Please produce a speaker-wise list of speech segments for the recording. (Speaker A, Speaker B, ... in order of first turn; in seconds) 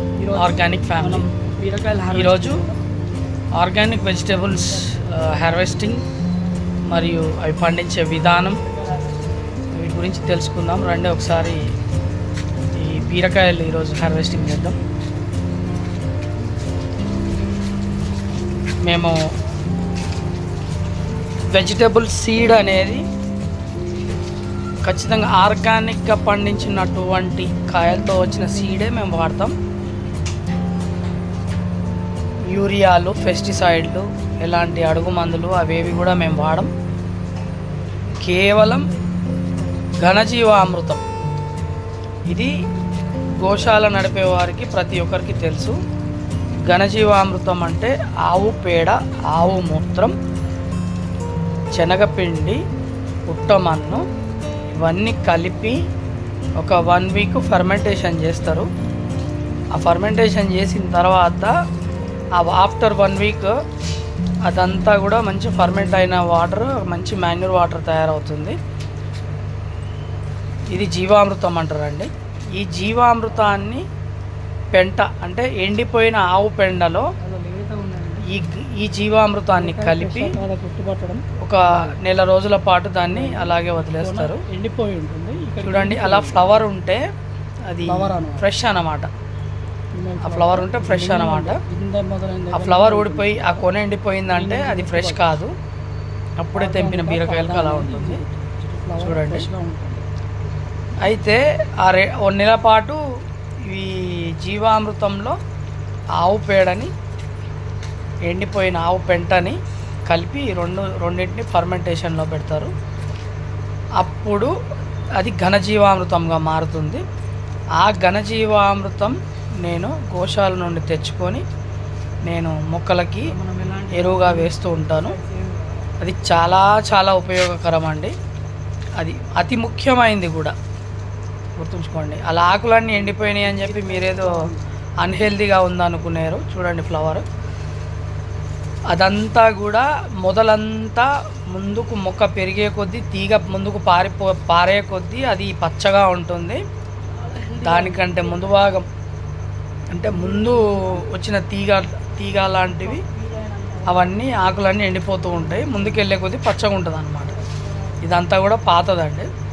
Speaker A: 0.2-2.8, 4.5-5.3, 8.6-9.2, 77.2-78.3, 79.5-82.0, 83.1-86.7, 87.8-88.5, 89.9-93.6, 94.3-95.2, 96.5-100.0, 123.2-125.9, 132.9-134.6, 147.1-148.7, 150.0-151.1, 152.8-156.0, 157.3-158.0
Speaker B: 0.3-1.3, 2.1-2.6, 3.6-6.0, 6.9-8.6, 9.7-11.6, 12.8-14.8, 18.9-19.1, 21.5-23.0, 24.8-29.5, 32.5-36.7, 38.2-38.9, 40.0-41.0, 43.4-45.8, 46.6-50.1, 51.7-52.6, 53.3-54.0, 54.8-55.8, 56.6-58.7, 59.7-61.5, 62.4-63.5, 64.5-68.6, 70.7-73.8, 74.7-77.1, 78.3-80.3, 81.4-84.4, 85.6-87.0, 87.7-89.1, 90.2-91.6, 92.5-95.5, 96.4-98.2, 99.0-99.5, 101.0-103.0, 103.7-105.4, 106.2-106.9, 108.3-112.7, 114.0-114.5, 115.2-117.0, 117.8-121.4, 122.2-123.3, 123.9-125.2, 126.0-128.1, 129.0-130.5, 131.6-134.3, 135.0-137.2, 138.9-146.6, 147.6-148.9, 149.9-153.0, 153.9-157.3, 158.0-159.3